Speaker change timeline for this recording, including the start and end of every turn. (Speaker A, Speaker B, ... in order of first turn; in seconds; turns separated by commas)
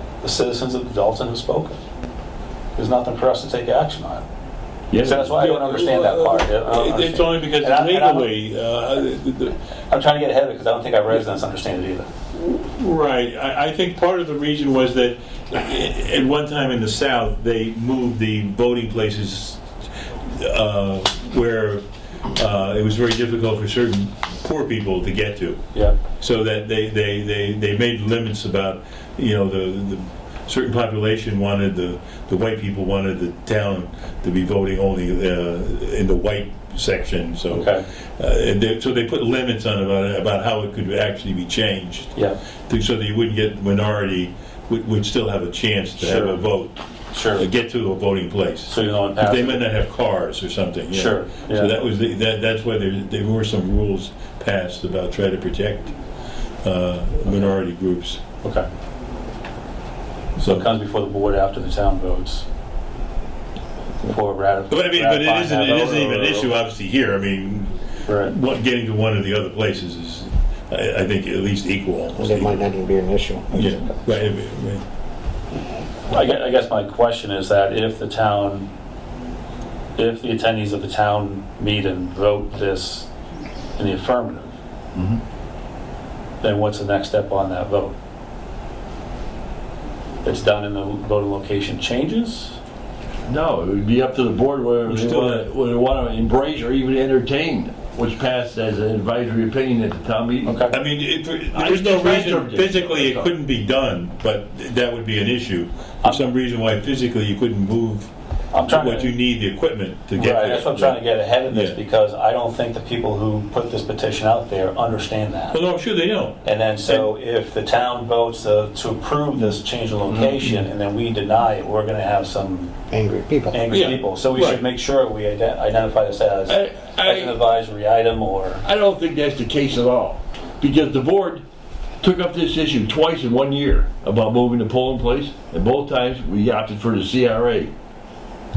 Speaker A: 0.2-1.8, Speaker A: 2.8-4.2, Speaker B: 4.9-5.4, Speaker A: 5.0-8.3, Speaker C: 5.4-9.6, Speaker A: 9.9-12.1, Speaker C: 12.3-19.6, Speaker C: 20.2-25.6, Speaker A: 25.7-26.0, Speaker C: 26.1-42.1, Speaker A: 37.5-37.9, Speaker C: 42.7-46.8, Speaker A: 46.0-46.4, Speaker A: 47.1-47.5, Speaker C: 47.3-55.9, Speaker A: 48.7-49.6, Speaker A: 50.9-51.7, Speaker C: 56.6-58.2, Speaker C: 60.4-60.7, Speaker A: 60.4-62.5, Speaker A: 64.0-66.5, Speaker C: 64.7-72.6, Speaker A: 68.1-68.3, Speaker D: 72.2-74.0, Speaker C: 73.5-74.8, Speaker A: 76.1-78.7, Speaker A: 80.0-83.1, Speaker A: 83.8-84.5, Speaker B: 84.9-85.2, Speaker A: 86.4-87.9, Speaker A: 90.2-92.6, Speaker B: 93.2-100.6, Speaker C: 94.8-95.5, Speaker A: 100.4-100.8, Speaker C: 100.7-108.1, Speaker B: 101.5-103.3, Speaker A: 106.0-106.3, Speaker A: 108.5-109.1, Speaker C: 108.7-111.8, Speaker A: 110.2-115.6, Speaker C: 115.5-117.0, Speaker A: 116.4-122.7, Speaker B: 120.1-120.5, Speaker D: 122.9-123.6, Speaker A: 123.5-128.6, Speaker B: 123.7-124.0, Speaker C: 124.3-124.6, Speaker B: 126.5-127.4, Speaker B: 128.6-131.4, Speaker B: 132.0-137.7